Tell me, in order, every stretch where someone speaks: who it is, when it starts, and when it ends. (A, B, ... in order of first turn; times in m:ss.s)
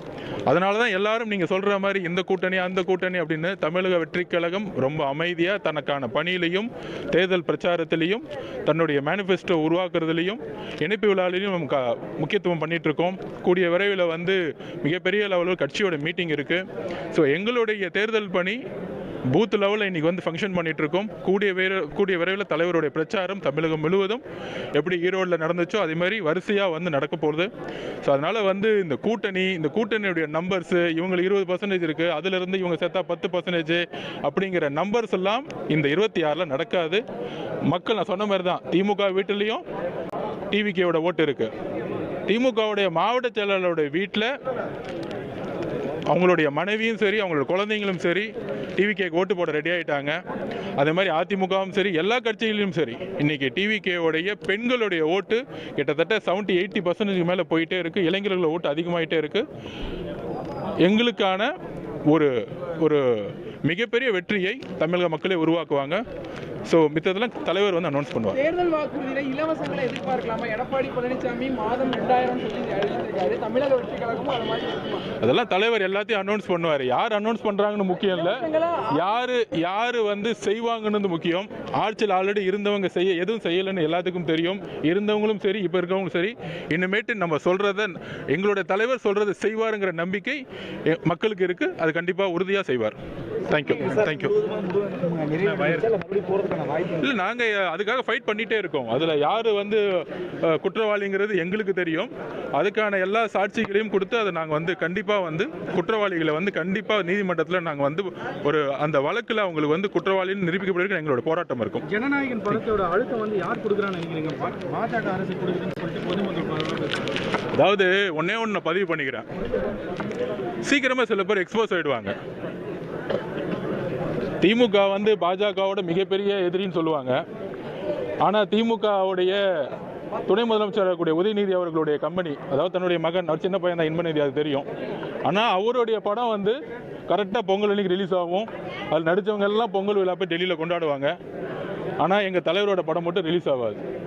0:00.5-0:18.6 A
0:19.3-0:24.2 A
0:24.8-0:27.5 A
0:28.0-0:37.0 A
0:37.7-0:39.6 A
0:40.5-0:41.5 A
0:42.3-0:44.3 A
0:46.1-0:50.2 A
0:50.8-0:59.4 A
1:00.8-1:01.5 A
1:02.1-1:06.0 A
1:06.7-1:08.4 A
1:08.3-1:15.1 B
1:15.2-1:33.0 A
1:18.2-1:19.1 B
1:33.5-1:34.4 A
1:33.6-1:37.1 C
1:35.5-1:35.8 A
1:37.0-1:51.8 A
1:51.9-1:57.1 C
1:57.6-1:59.3 A
2:00.6-2:02.2 A
2:04.4-2:07.2 A
2:08.2-2:09.4 A
2:10.3-2:14.7 A
2:15.2-2:16.6 A
2:17.1-2:21.1 A
2:22.0-2:23.8 A